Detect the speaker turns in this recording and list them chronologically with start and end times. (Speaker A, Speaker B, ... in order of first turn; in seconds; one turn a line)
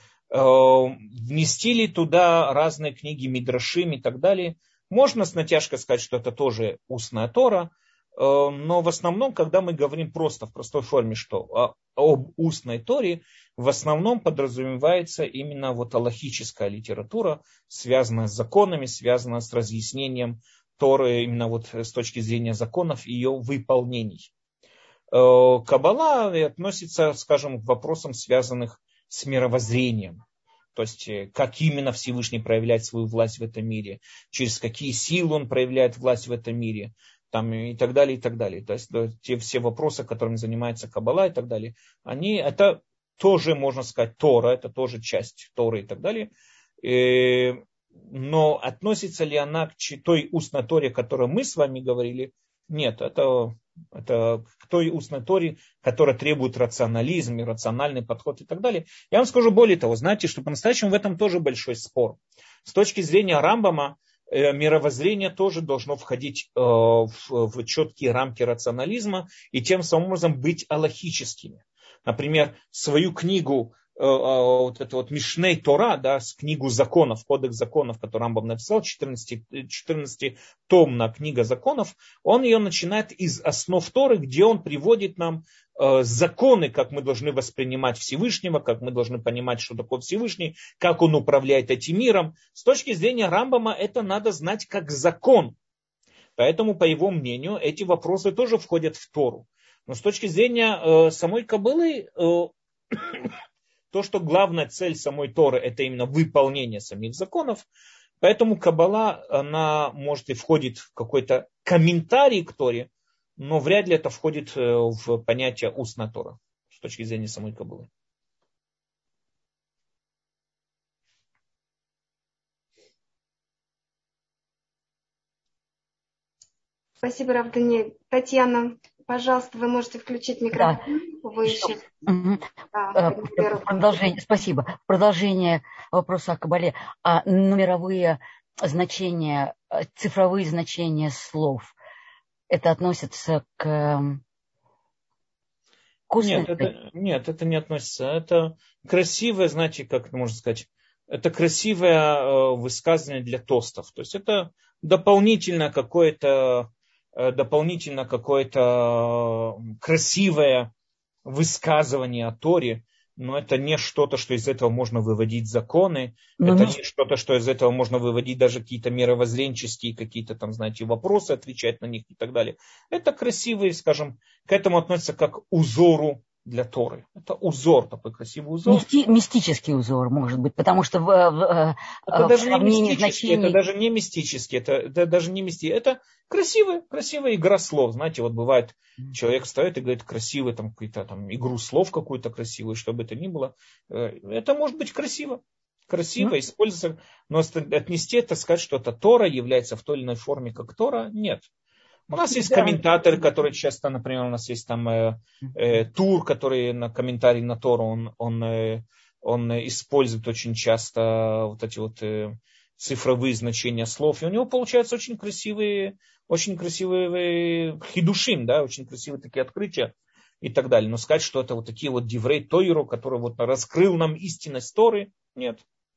Speaker A: 0.3-24.3
Speaker A: 25.1-30.2
Speaker A: 30.7-46.3
Speaker A: 46.8-95.5
Speaker A: 96.4-103.3
Speaker A: 103.9-107.7
Speaker A: 108.2-117.9
Speaker B: 127.0-131.8
Speaker C: 130.5-130.8
Speaker C: 131.4-141.7
Speaker B: 132.7-134.0
Speaker C: 142.5-144.2
Speaker C: 146.1-146.7
Speaker A: 146.2-160.7
Speaker A: 161.2-178.9
Speaker C: 166.4-166.8
Speaker C: 178.7-183.6
Speaker A: 182.1-201.5
Speaker A: 202.1-225.6
Speaker C: 202.2-202.8